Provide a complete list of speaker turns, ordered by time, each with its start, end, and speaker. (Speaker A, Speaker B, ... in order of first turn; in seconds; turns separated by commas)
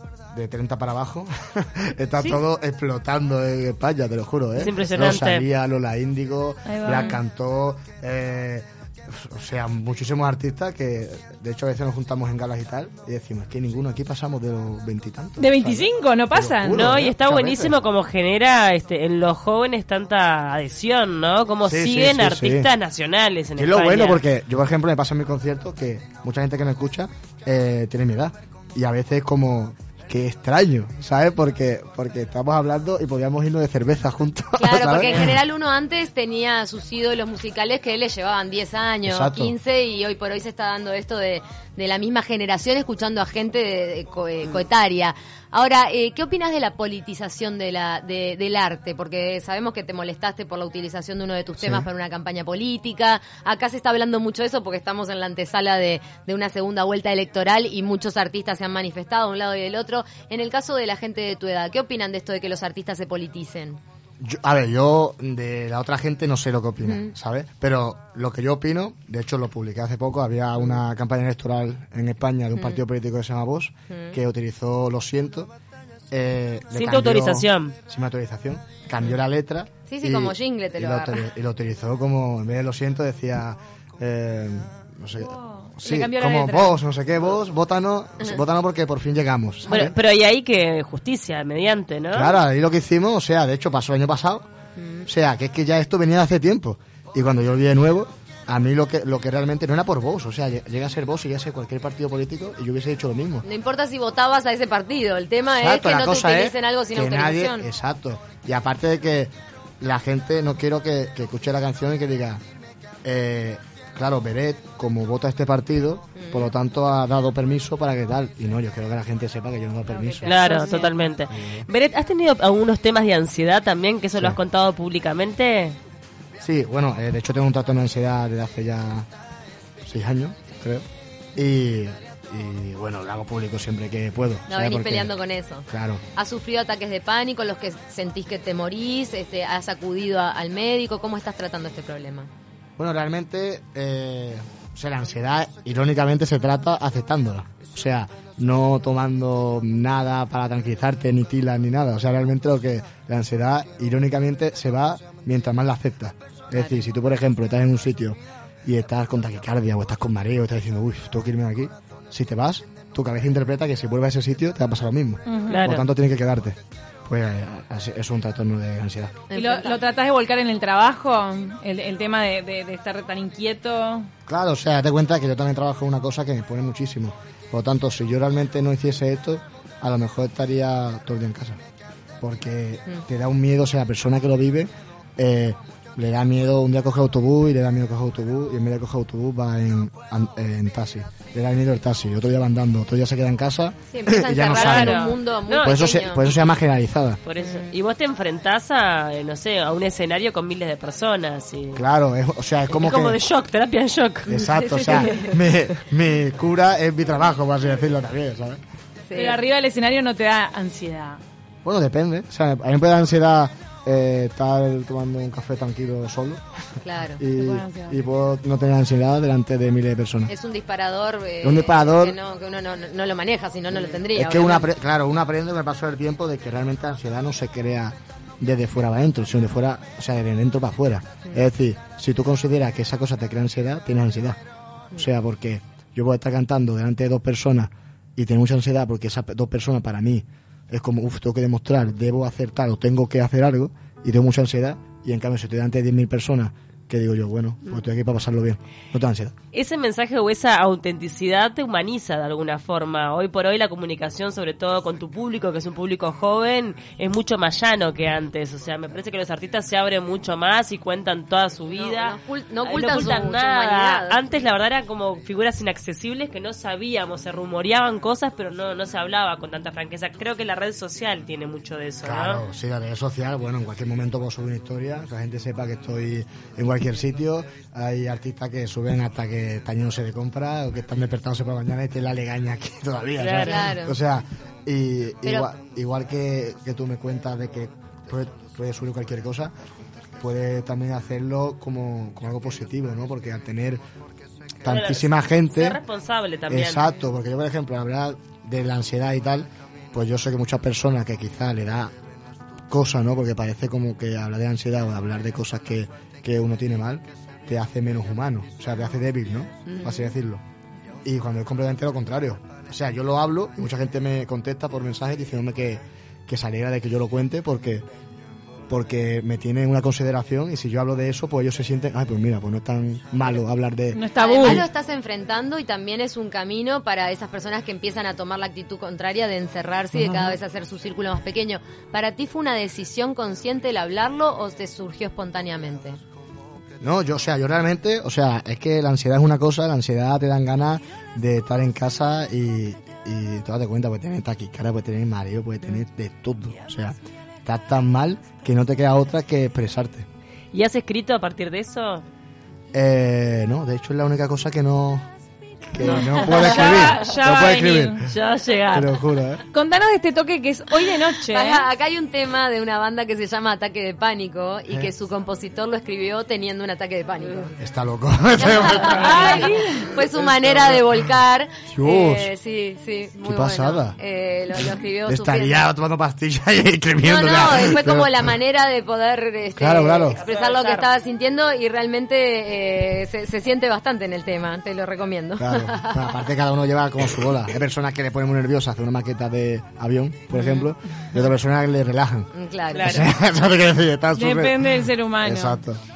Speaker A: 0.3-17.7, Speaker B: 4.6-5.5, Speaker C: 6.7-7.2, Speaker C: 15.4-16.8, Speaker B: 16.7-24.2, Speaker A: 21.6-22.7, Speaker A: 23.6-35.4, Speaker D: 34.6-63.8, Speaker A: 39.0-39.5, Speaker A: 51.6-51.9, Speaker A: 64.2-75.5, Speaker D: 66.8-67.1, Speaker D: 73.9-74.2, Speaker A: 76.1-90.0, Speaker B: 76.7-77.7, Speaker D: 79.9-81.2, Speaker C: 85.2-86.8, Speaker B: 89.7-92.4, Speaker A: 92.1-94.5, Speaker D: 94.8-95.1, Speaker A: 95.0-103.4, Speaker D: 103.4-107.7, Speaker A: 105.6-112.4, Speaker A: 113.0-120.3, Speaker D: 116.2-116.5, Speaker C: 119.9-121.0, Speaker B: 120.2-125.8, Speaker A: 121.3-121.7, Speaker A: 126.4-129.1, Speaker A: 129.8-135.1, Speaker D: 134.5-142.3, Speaker A: 135.7-136.0, Speaker A: 142.8-169.2, Speaker C: 165.2-165.6, Speaker B: 165.5-165.9, Speaker D: 169.3-169.8, Speaker C: 169.3-174.1, Speaker A: 174.3-181.6, Speaker A: 182.2-197.2, Speaker D: 193.9-196.2, Speaker B: 194.4-196.3, Speaker B: 197.2-201.8, Speaker D: 197.4-197.7, Speaker A: 201.7-203.2, Speaker B: 202.7-205.0, Speaker A: 204.3-208.6, Speaker D: 204.4-205.3, Speaker D: 209.1-209.4, Speaker C: 209.1-211.2, Speaker A: 211.6-216.4, Speaker D: 216.8-217.2, Speaker A: 217.2-220.3, Speaker C: 217.3-218.0, Speaker D: 220.3-224.7, Speaker A: 221.4-222.2, Speaker A: 224.1-234.4, Speaker A: 234.9-249.3, Speaker B: 249.5-272.4, Speaker D: 261.7-264.2, Speaker A: 272.0-289.5, Speaker B: 283.2-283.7, Speaker D: 283.4-283.9, Speaker A: 290.2-293.8, Speaker A: 294.6-295.8, Speaker B: 294.6-296.9, Speaker A: 296.5-301.9, Speaker A: 302.7-310.4, Speaker A: 311.0-317.8, Speaker A: 318.7-324.6, Speaker C: 323.9-324.6, Speaker D: 324.2-336.0, Speaker A: 329.9-330.4, Speaker A: 336.8-350.1, Speaker B: 350.5-352.0, Speaker A: 352.7-355.1, Speaker A: 355.7-358.1, Speaker B: 355.8-357.1, Speaker C: 356.2-358.0, Speaker B: 358.0-359.0, Speaker A: 358.7-359.4, Speaker C: 359.5-361.7, Speaker D: 361.2-367.6, Speaker A: 367.6-371.1, Speaker D: 368.4-375.6, Speaker C: 368.9-369.9, Speaker A: 371.7-372.3, Speaker A: 373.2-374.0, Speaker A: 374.5-378.4, Speaker D: 377.0-386.1, Speaker A: 379.5-380.2, Speaker B: 380.1-380.9, Speaker A: 385.4-395.8, Speaker D: 390.3-390.7, Speaker D: 392.3-393.1, Speaker B: 392.7-393.1, Speaker C: 394.1-395.6